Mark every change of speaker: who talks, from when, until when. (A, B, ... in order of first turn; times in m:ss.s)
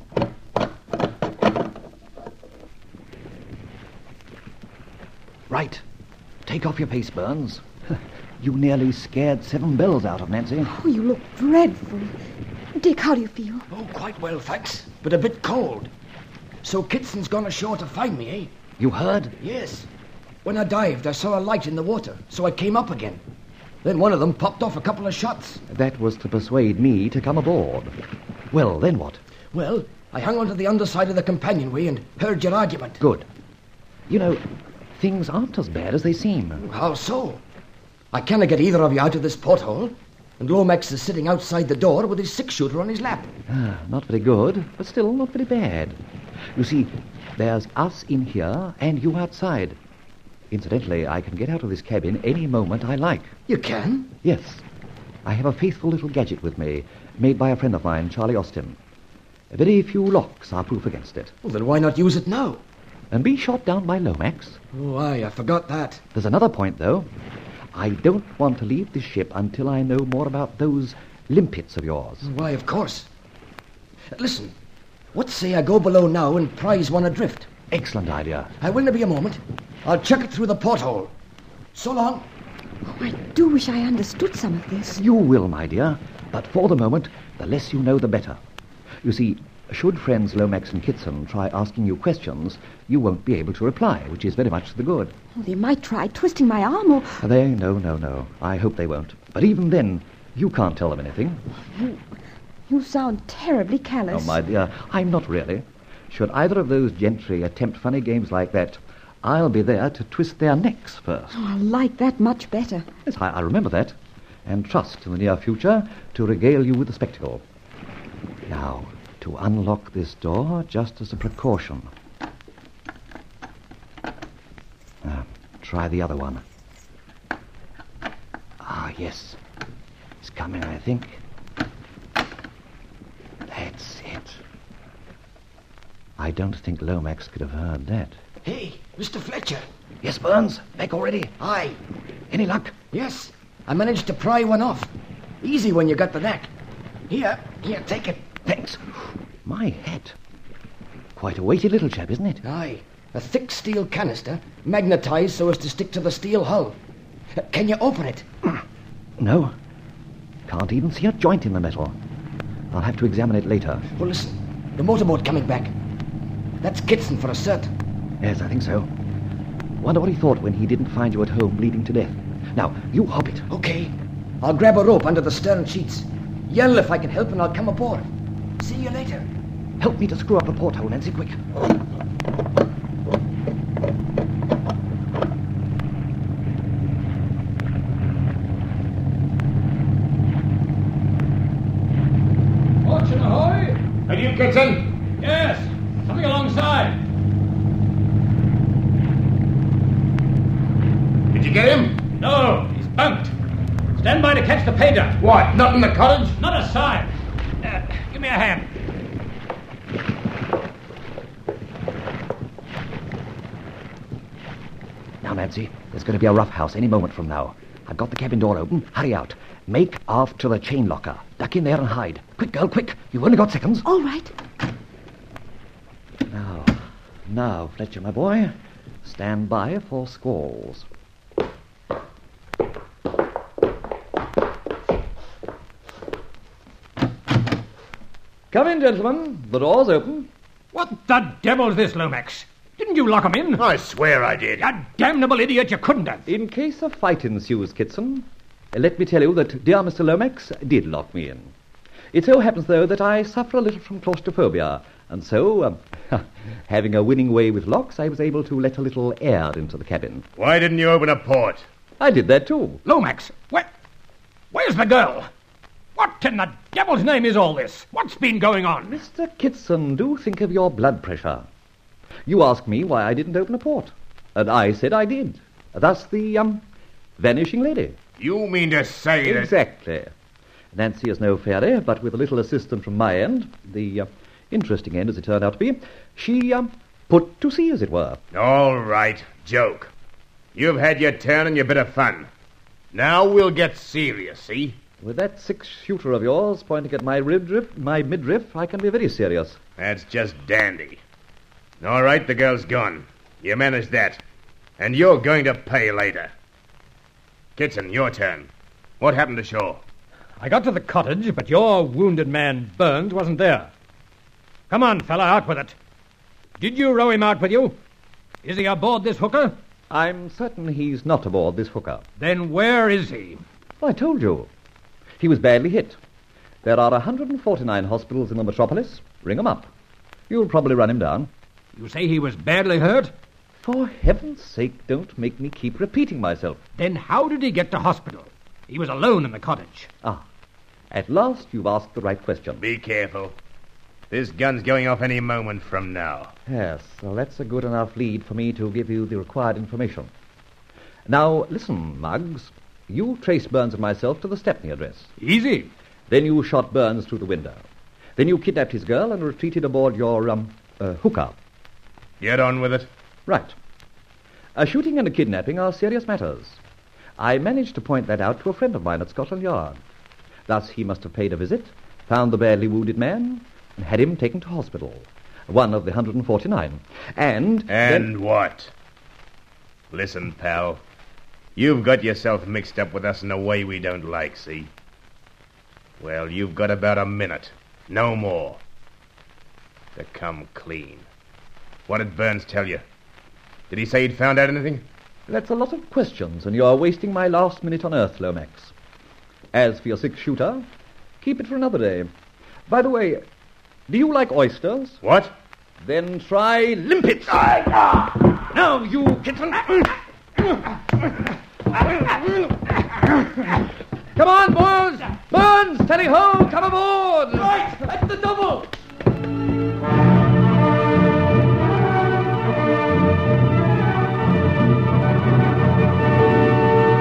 0:05.5-0:05.8 A
0:06.5-0:07.6 A
0:08.4-0:10.7 A
0:10.6-0:12.1 B
0:12.8-0:13.7 B
0:13.7-0:15.9 C
0:16.6-0:18.5 C
0:18.8-0:19.3 A
0:19.4-0:19.9 C
0:20.4-0:23.2 C
0:23.8-0:25.6 C
0:25.7-0:27.9 A
0:28.5-0:29.2 A
0:29.5-0:33.0 C
0:33.0-0:33.3 A
0:34.1-0:34.4 A
0:35.0-0:36.6 A
0:36.6-0:37.4 C
0:38.1-0:43.3 C
0:43.5-0:46.0 A
0:46.6-0:49.8 A
0:50.5-0:53.3 A
0:53.5-0:54.1 C
0:54.2-0:54.6 A
0:55.2-0:58.8 A
0:59.5-1:01.3 A
1:01.4-1:02.6 C
1:03.1-1:04.6 A
1:04.7-1:06.0 C
1:06.1-1:07.1 A
1:07.7-1:12.3 A
1:12.2-1:13.1 C
1:14.1-1:14.6 C
1:15.1-1:17.5 C
1:17.7-1:18.5 A
1:18.6-1:21.1 C
1:21.7-1:22.3 C
1:22.8-1:25.0 B
1:25.0-1:28.4 A
1:29.0-1:35.1 A
1:35.4-1:37.2 B
1:37.2-1:41.4 A
1:41.8-1:42.0 B
1:42.7-1:44.4 B
1:44.1-1:51.4 A
1:51.3-1:52.9 B
1:53.0-1:57.4 A
1:58.5-2:01.9 A
2:05.0-2:06.4 A
2:08.6-2:09.4 A
2:10.2-2:11.2 A
2:13.5-2:14.4 A
2:16.2-2:18.2 A
2:18.4-2:19.6 C
2:20.0-2:21.4 A
2:21.4-2:21.8 C
2:22.3-2:22.8 A
2:22.9-2:26.5 C
2:27.1-2:28.2 C
2:28.5-2:30.2 A
2:31.2-2:32.4 A
2:32.4-2:36.8 C
2:37.4-2:38.3 C
2:39.2-2:39.5 A
2:40.5-2:42.0 A
2:42.7-2:43.9 A
2:44.0-2:45.7 C
2:46.6-2:47.7 C
2:48.2-2:48.9 A
2:49.8-2:53.5 A
2:53.5-2:58.0 C
2:58.6-2:59.3 C
2:59.8-3:01.4 A
3:12.8-3:13.8 D
3:14.1-3:14.9 E
3:15.2-3:17.0 D
3:21.3-3:22.0 E
3:22.2-3:23.3 D
3:24.0-3:25.2 D
3:25.2-3:26.4 E
3:26.4-3:27.1 D
3:27.6-3:28.7 D
3:35.2-3:43.9 A
3:43.8-3:44.3 B
3:46.3-3:48.5 A
3:49.0-3:50.9 A
3:58.5-4:00.3 A
4:00.7-4:03.6 D
4:03.6-4:04.7 E
4:04.6-4:06.2 D
4:06.3-4:11.5 A
4:12.1-4:20.3 A
4:20.4-4:21.6 E
4:22.0-4:22.8 A
4:22.9-4:23.7 D
4:24.5-4:25.3 D
4:26.0-4:29.0 D
4:28.9-4:31.5 A
4:32.3-4:36.6 A
4:37.2-4:38.0 A
4:38.2-4:39.5 E
4:39.2-4:40.1 A
4:40.7-4:48.2 A
4:48.3-4:49.9 E
4:50.6-4:52.3 E
4:52.9-4:54.8 E
4:55.0-4:59.6 A
4:59.8-5:01.0 E
5:01.8-5:04.2 E
5:04.8-5:06.3 E
5:07.6-5:08.5 E
5:09.0-5:09.8 E
5:10.4-5:13.7 D
5:14.7-5:15.7 D
5:16.6-5:17.8 D
5:18.4-5:19.5 D
5:19.9-5:22.0 A
5:22.2-5:23.4 D
5:23.8-5:24.5 A
5:25.2-5:26.0 A
5:26.6-5:29.7 A
5:30.3-5:31.3 A
5:31.8-5:33.1 D
5:33.6-5:36.6 A
5:36.8-5:39.9 D
5:40.9-5:42.6 A
5:42.6-5:43.4 E
5:44.1-5:46.3 E
5:46.5-5:50.1 A
5:51.1-5:55.1 A
5:55.2-5:55.7 D
5:56.1-6:01.4 A
6:02.2-6:02.9 E
6:03.3-6:03.6 A
6:04.6-6:06.6 A
6:07.2-6:09.8 A
6:10.5-6:18.1 A
6:17.7-6:18.7 E
6:19.9-6:20.8 E
6:21.6-6:24.7 E
6:26.0-6:28.6 E
6:30.0-6:31.1 E
6:31.9-6:32.8 E
6:33.7-6:34.8 E
6:35.3-6:38.7 A
6:39.5-6:40.7 A
6:41.2-6:42.1 A
6:42.7-6:43.2 A
6:43.9-6:45.0 A
6:45.0-6:45.3 E
6:45.8-6:47.7 A
6:48.3-6:50.0 A
6:52.1-6:52.5 A
6:54.2-6:58.7 A